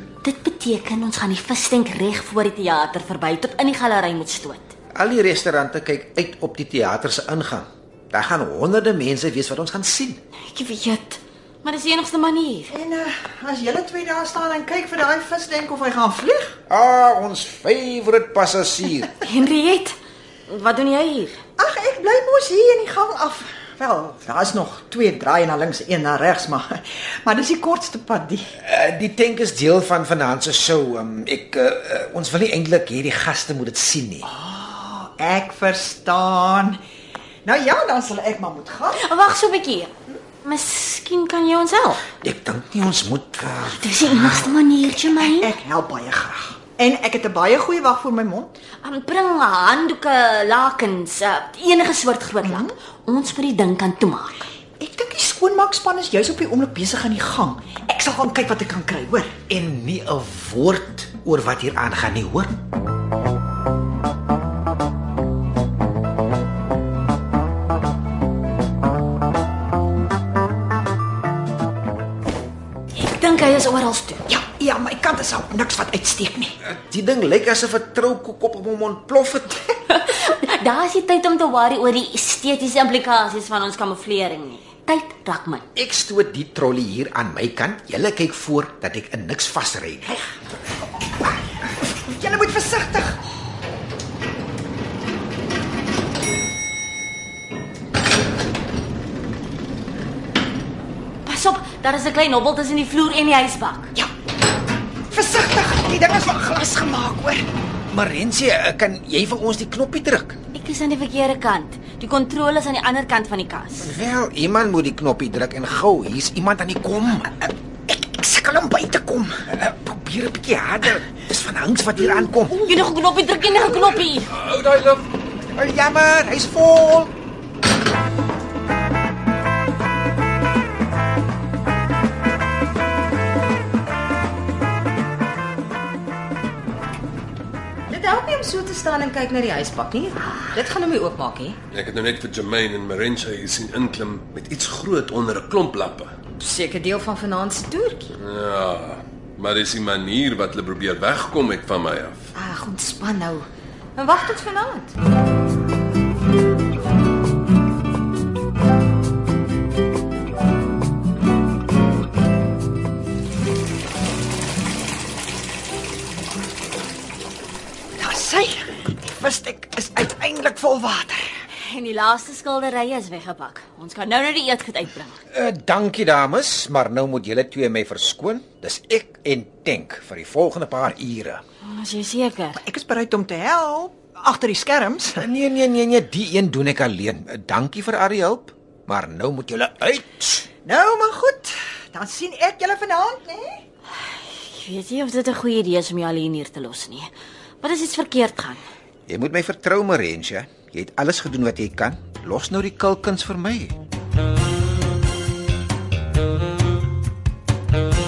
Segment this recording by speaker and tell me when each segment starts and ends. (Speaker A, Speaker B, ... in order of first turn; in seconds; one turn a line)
Speaker A: 0.2-4.7
Speaker B: 5.0-10.2
Speaker A: 10.5-12.7
Speaker C: 12.7-16.6
Speaker B: 16.7-19.2
Speaker A: 19.2-20.0
Speaker A: 20.5-21.4
Speaker C: 21.6-28.5
Speaker B: 28.6-34.3
Speaker C: 34.2-36.8
Speaker C: 37.5-39.0
Speaker A: 38.9-39.9
Speaker A: 40.4-42.0
Speaker B: 42.2-44.2
Speaker A: 43.8-45.5
Speaker C: 45.2-48.5
Speaker A: 48.8-54.4
Speaker C: 52.5-52.7
Speaker C: 54.8-59.4
Speaker B: 59.5-62.6
Speaker A: 73.0-74.2
Speaker C: 74.3-76.5
Speaker B: 76.6-79.7
Speaker A: 79.9-85.7
Speaker B: 85.8-90.2
Speaker C: 91.3-93.2
Speaker A: 101.2-103.9
Speaker C: 105.1-107.5
Speaker B: 107.9-110.4
Speaker A: 110.5-113.9
Speaker B: 113.8-117.4
Speaker C: 117.9-119.3
Speaker B: 119.5-122.7
Speaker A: 122.6-124.3
Speaker D: 124.3-125.1
Speaker B: 125.5-127.1
Speaker E: 137.9-141.6
Speaker D: 141.7-146.1
Speaker E: 146.4-148.1
Speaker D: 148.2-152.3
Speaker E: 152.3-154.9
Speaker C: 168.0-171.2
Speaker A: 171.6-175.2
Speaker B: 175.3-181.4
Speaker A: 181.7-182.6
Speaker C: 182.6-185.2
Speaker B: 185.2-190.5
Speaker C: 190.7-193.6
Speaker A: 194.4-197.1
Speaker A: 197.6-198.6
Speaker B: 199.1-203.8